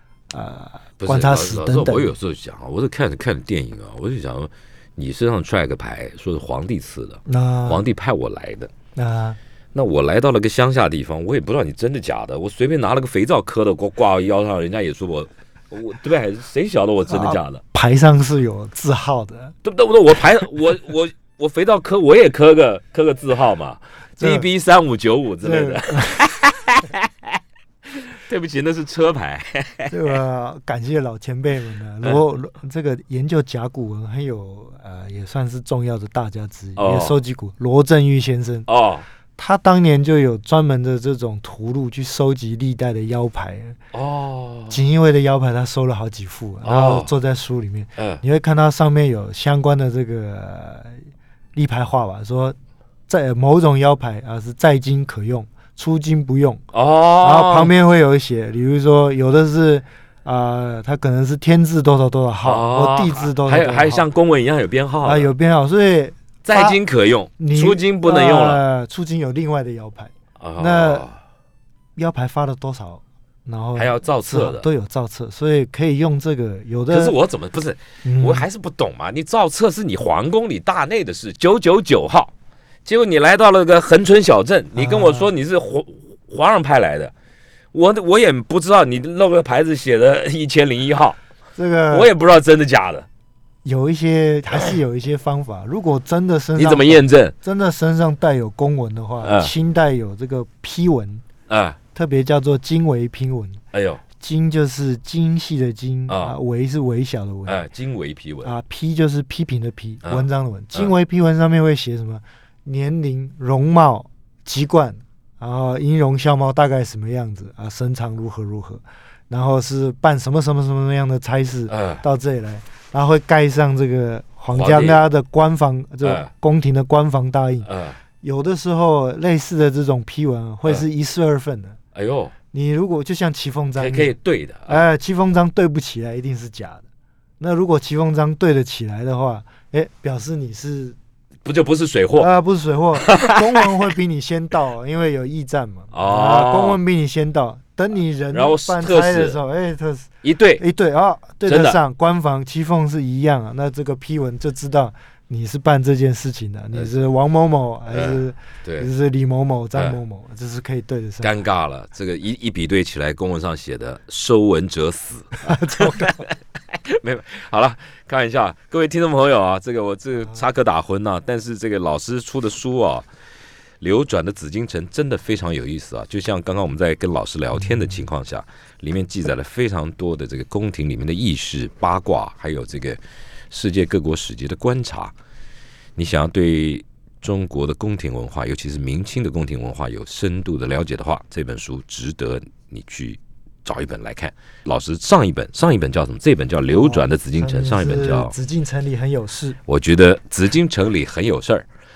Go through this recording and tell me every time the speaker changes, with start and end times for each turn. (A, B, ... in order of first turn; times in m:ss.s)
0:00.3-0:02.1 A
0:01.0-0:08.7 B
0:07.3-0:07.8 A
0:09.0-0:09.4 A
0:09.7-0:17.6 B
0:17.1-0:19.5 A
0:19.6-0:30.2 B
0:24.2-0:24.4 A
0:25.4-0:26.3 A
0:29.9-0:38.7 A
0:36.8-0:37.2 B
0:38.7-0:39.0 B
0:39.4-0:43.8 A
0:43.9-0:44.8 B
0:44.7-0:51.0 A
0:46.6-0:47.1 B
0:48.0-0:48.2 B
0:51.5-0:52.6 A
0:53.1-0:56.6 A
0:56.7-0:57.7 B
0:57.2-1:04.0 A
1:02.4-1:05.3 B
1:05.0-1:06.8 A
1:06.4-1:08.6 B
1:07.4-1:11.1 A
1:10.4-1:11.2 B
1:12.0-1:17.2 A
1:13.7-1:14.7 B
1:16.9-1:22.3 B
1:18.0-1:18.5 A
1:22.8-1:27.1 B
1:24.7-1:25.3 A
1:27.7-1:31.2 B
1:31.6-1:32.1 A
1:31.9-1:33.1 B
1:33.6-1:41.2 A
1:36.6-1:37.3 B
1:39.2-1:39.5 B
1:41.5-1:41.8 B
1:41.9-1:43.6 A
1:43.7-1:44.0 B
1:44.2-1:47.6 A
1:46.1-1:46.4 B
1:47.4-1:48.5 B
1:48.4-2:07.7 A
1:50.0-1:50.9 B
2:01.7-2:02.0 B
2:04.5-2:05.0 B
2:06.0-2:06.3 B
2:07.6-2:08.0 B
2:08.2-2:11.8 A
2:11.9-2:12.3 B
2:12.5-2:14.1 A
2:13.8-2:14.8 B
2:14.7-2:16.8 A
2:17.4-2:21.0 A
2:21.4-2:22.3 B
2:22.2-2:41.3 A
2:23.0-2:23.6 B
2:25.9-2:26.8 B
2:28.3-2:29.4 B
2:30.2-2:30.6 B
2:31.4-2:31.8 B
2:37.9-2:38.9 B
2:41.2-2:53.0 B
2:45.4-2:46.2 A
2:53.8-3:05.1 B
3:06.0-3:18.3 B
3:16.7-3:19.6 A
3:19.7-3:21.6 B